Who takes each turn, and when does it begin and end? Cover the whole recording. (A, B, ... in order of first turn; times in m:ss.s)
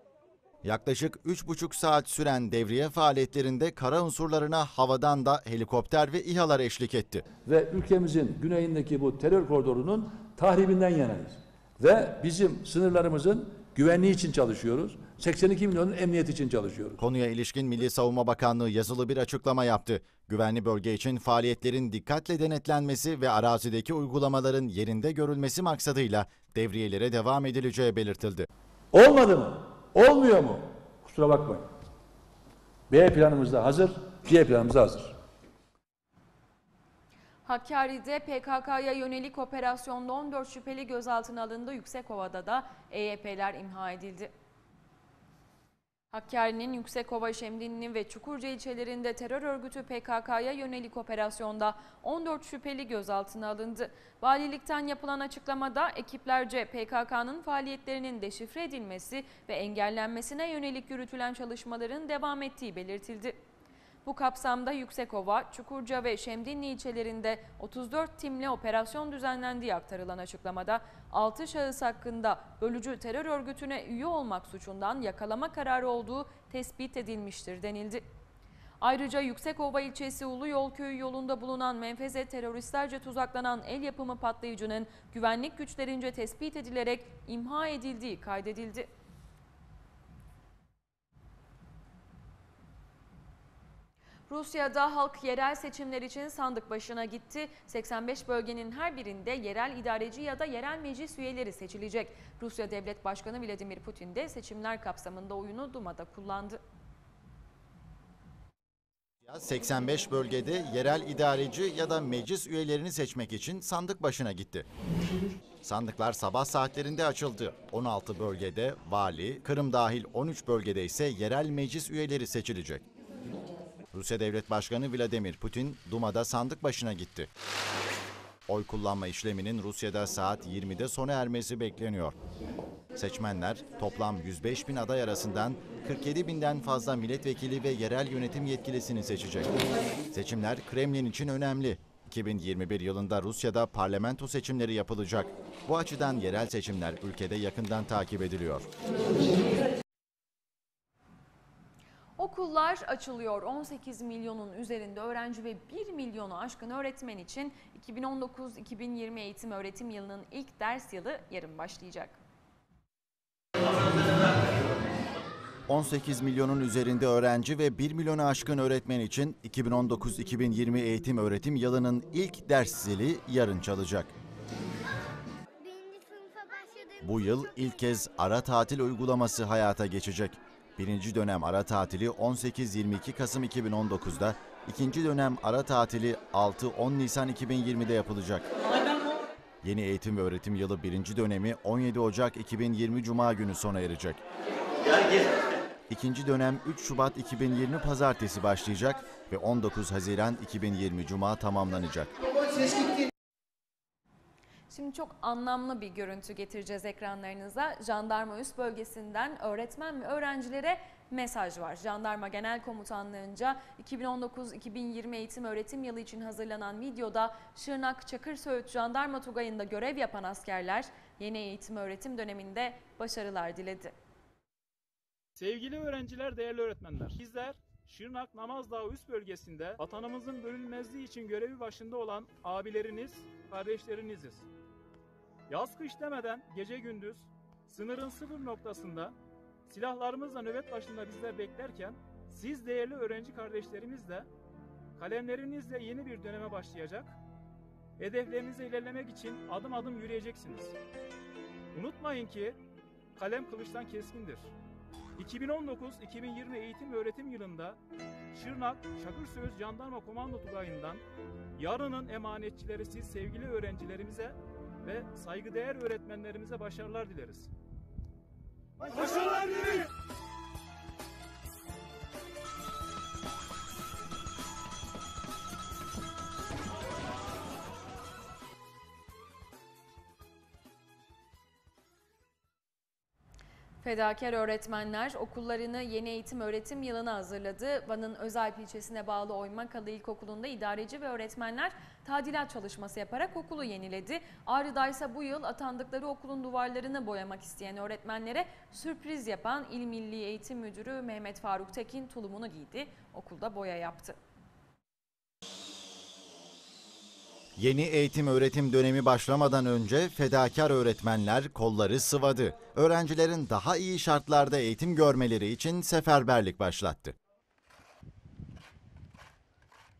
0:00.6-0:07.2 A
0:07.4-0:17.0 B
0:17.0-0:28.5 A
0:28.9-0:31.6 B
0:32.9-0:35.2 B
0:37.4-0:44.3 C
0:46.1-1:03.4 C
1:04.0-1:18.0 C
1:18.8-1:28.9 C
1:34.3-1:46.6 C
1:49.2-1:54.7 A
1:55.6-2:02.8 A
2:03.9-2:07.3 A
2:08.5-2:12.2 A
2:13.0-2:19.5 A
2:20.1-2:28.7 A
2:32.2-2:42.2 C
2:45.7-2:54.1 A
2:57.0-3:08.5 A
3:09.6-3:14.2 A
3:15.9-3:22.1 A
3:24.7-3:43.9 C
3:45.4-3:54.4 D
3:55.5-3:59.1 D
3:59.7-4:04.3 D
4:05.0-4:07.1 D
4:08.0-4:10.7 D
4:11.7-4:12.6 D
4:13.2-4:14.5 D
4:15.2-4:17.8 D
4:18.3-4:21.0 D
4:21.6-4:27.5 D
4:43.8-5:04.2 C
5:07.6-5:17.2 A